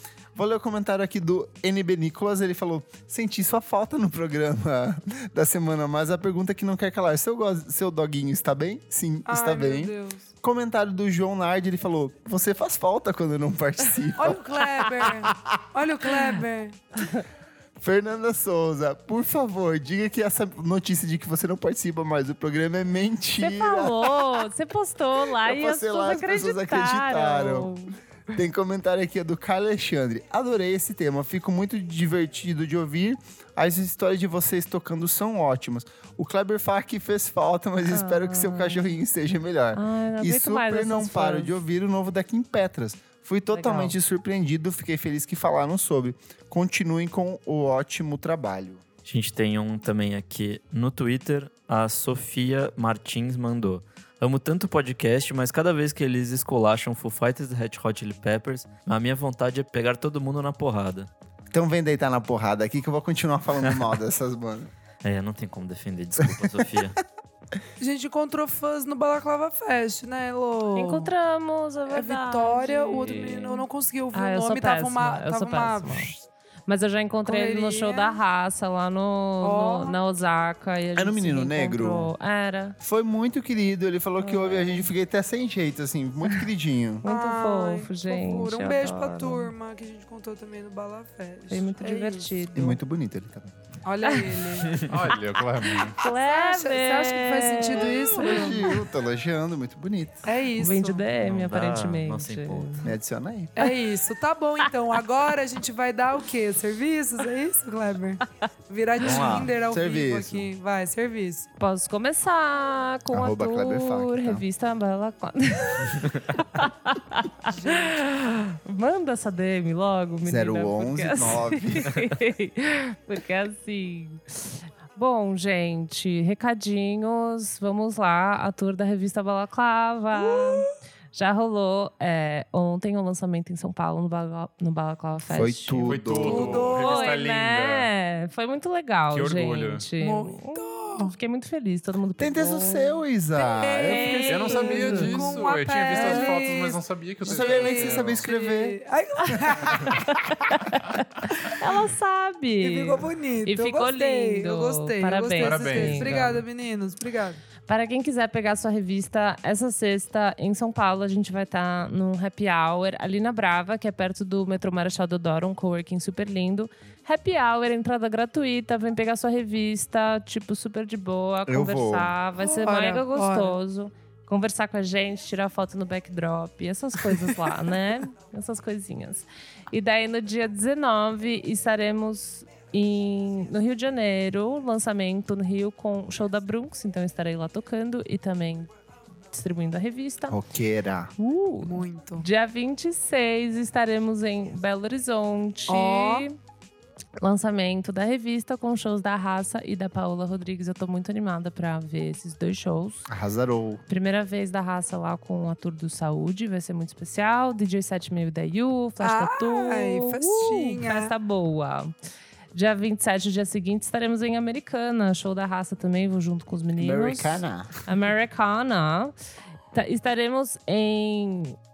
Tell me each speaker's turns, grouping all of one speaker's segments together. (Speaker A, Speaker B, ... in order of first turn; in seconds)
Speaker A: 0.3-16.3, 17.8-24.3, 25.4-27.7, 28.3-48.8, 61.5-64.7, 66.2-66.8, 81.0-82.1, 82.8-87.0, 92.5-93.6, 97.8-100.3, 102.8-103.5, 109.0-110.5, 113.1-114.5, 120.2-121.9, 135.3-136.7, 142.2-145.0, 147.2-148.8, 171.5-172.2, 190.3-191.1, 203.1-203.8, 216.8-217.7
Speaker B: 9.3-10.3, 14.2-16.8, 67.8-71.1, 71.9-76.2, 77.2-78.2, 79.4-80.0, 87.0-92.5, 93.8-94.8, 96.0-98.8, 100.2-101.1, 103.6-111.5, 117.5-118.0, 130.2-130.6, 136.2-137.1, 140.0-141.2, 143.8-150.0, 152.6-157.4, 172.4-173.6, 191.6-192.3, 195.7-196.3, 209.0-211.1
Speaker C: 17.0-17.2, 23.4-27.9, 37.9-39.0, 39.7-41.5, 43.5-44.0, 70.8-76.2, 76.7-82.8, 84.2-84.9, 87.0-89.5, 91.5-92.8, 94.0-94.8, 95.7-98.8, 100.6-102.9, 111.6-124.2, 125.0-145.2, 145.9-146.2, 149.8-156.3, 157.7-188.7, 189.3-190.4, 191.2-196.3, 197.2-203.1, 203.9-211.9, 212.5-219.1, 219.7-221.6
Speaker D: 49.1-61.1, 65.0-67.0, 101.2-102.9
Speaker E: 94.8-96.0, 135.8-137.9, 139.1-139.9, 144.3-148.3, 155.4-156.4